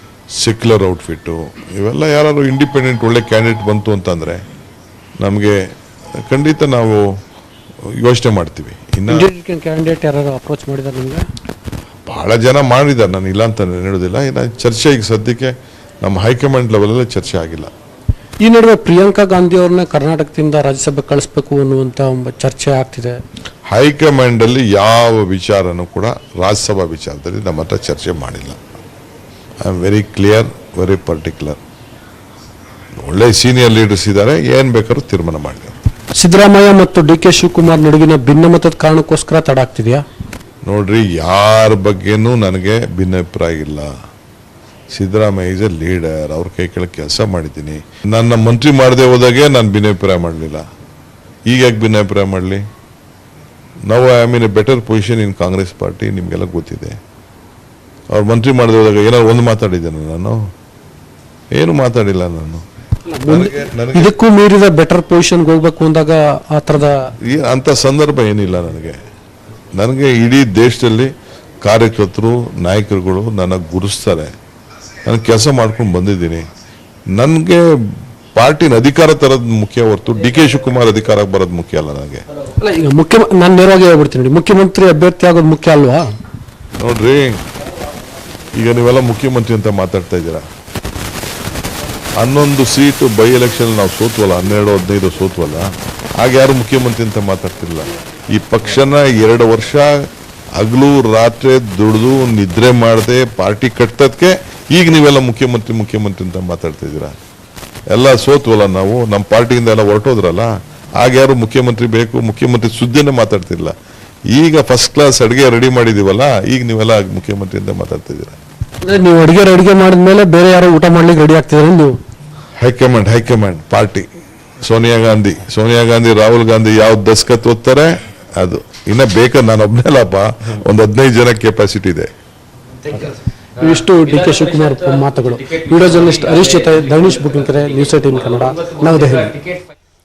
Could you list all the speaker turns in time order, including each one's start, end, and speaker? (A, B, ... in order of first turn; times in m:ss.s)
0:00.4-0:04.4 A
0:05.2-0:05.6 A
0:06.2-0:07.1 A
0:08.0-0:09.3 A
0:09.1-0:11.2 B
0:12.1-0:17.7 A
0:18.4-0:23.2 B
0:23.7-0:28.6 A
0:29.6-0:31.6 A
0:33.0-0:35.8 A
0:36.2-0:40.0 B
0:40.6-0:43.9 A
0:44.9-0:50.6 A
0:51.5-0:52.6 A
0:53.9-0:57.0 A
0:58.1-1:00.4 A
1:01.6-1:02.6 A
1:03.1-1:07.1 B
1:03.3-1:04.1 A
1:07.3-1:09.0 A
1:09.7-1:11.1 A
1:11.6-1:14.3 A
1:15.1-1:16.5 A
1:17.2-1:17.8 A
1:18.4-1:22.2 A
1:22.6-1:26.1 B
1:26.8-1:27.4 A
1:28.5-1:30.4 A
1:32.2-1:40.0 A
1:40.6-1:47.2 A
1:47.9-1:53.7 A
1:54.3-1:58.4 A
1:58.8-2:02.0 B
2:02.6-2:04.1 A
2:04.6-2:12.1 A
2:12.9-2:19.4 B